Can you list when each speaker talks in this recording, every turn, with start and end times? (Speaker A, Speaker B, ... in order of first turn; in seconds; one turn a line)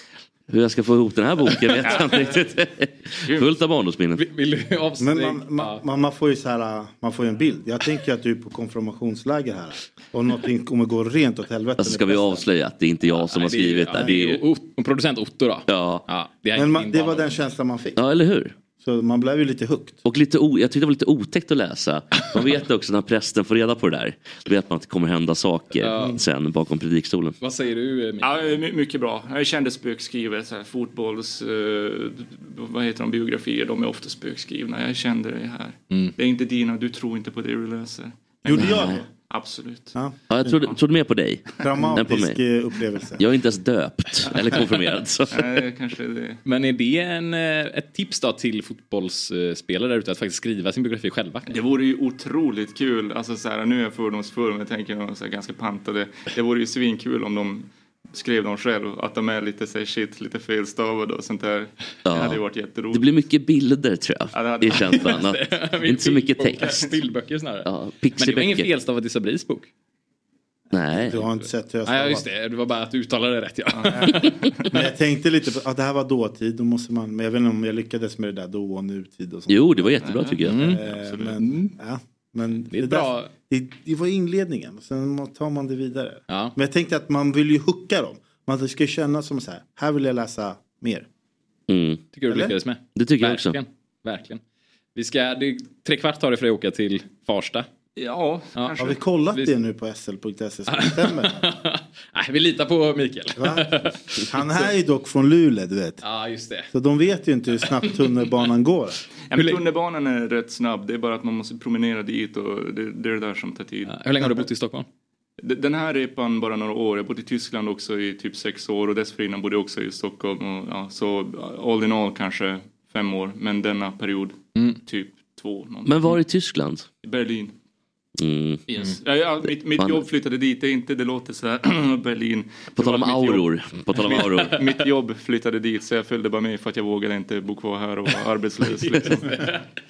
Speaker A: 0.5-4.2
Speaker B: 1.8-2.5
Speaker B: 3.3-3.5
Speaker C: 4.2-5.8
Speaker D: 5.0-12.5
Speaker A: 11.8-14.4
Speaker C: 13.1-17.6
Speaker A: 15.7-16.1
Speaker D: 16.5-18.0
Speaker A: 18.0-18.6
Speaker D: 18.7-20.0
Speaker A: 20.0-27.4
Speaker C: 25.8-26.2
Speaker C: 27.4-28.6
Speaker B: 28.2-40.0
Speaker D: 38.5-39.1
Speaker A: 38.7-39.0
Speaker D: 40.0-40.6
Speaker A: 40.3-42.4
Speaker D: 41.6-43.2
Speaker A: 43.2-45.5
Speaker B: 45.3-46.4
Speaker C: 46.5-51.5
Speaker B: 51.5-63.1
Speaker A: 62.1-66.9
Speaker B: 64.3-65.2
Speaker C: 64.9-69.7
Speaker A: 67.7-68.7
Speaker D: 70.7-72.3
Speaker A: 70.7-71.2
Speaker C: 71.8-74.8
Speaker B: 73.7-74.7
Speaker D: 74.7-80.0
Speaker A: 79.5-80.6
Speaker B: 80.0-81.4
Speaker C: 80.5-80.8
Speaker D: 80.6-91.1
Speaker C: 81.4-81.7
Speaker C: 82.7-83.3
Speaker C: 86.3-86.6
Speaker A: 91.7-92.1
Speaker C: 92.1-94.4
Speaker D: 92.3-92.6
Speaker A: 93.0-93.6
Speaker C: 95.0-97.7
Speaker B: 98.0-99.0
Speaker C: 98.5-99.5
Speaker D: 98.8-101.5
Speaker C: 100.7-104.7
Speaker D: 103.4-106.0
Speaker C: 106.0-106.7
Speaker D: 106.7-109.0
Speaker B: 109.3-114.4
Speaker C: 109.3-109.6
Speaker C: 113.9-114.9
Speaker B: 115.4-126.2
Speaker A: 125.9-126.9
Speaker B: 127.0-127.5
Speaker A: 128.2-128.6
Speaker B: 128.7-139.5
Speaker A: 129.7-130.0
Speaker A: 132.8-134.6
Speaker C: 138.8-139.7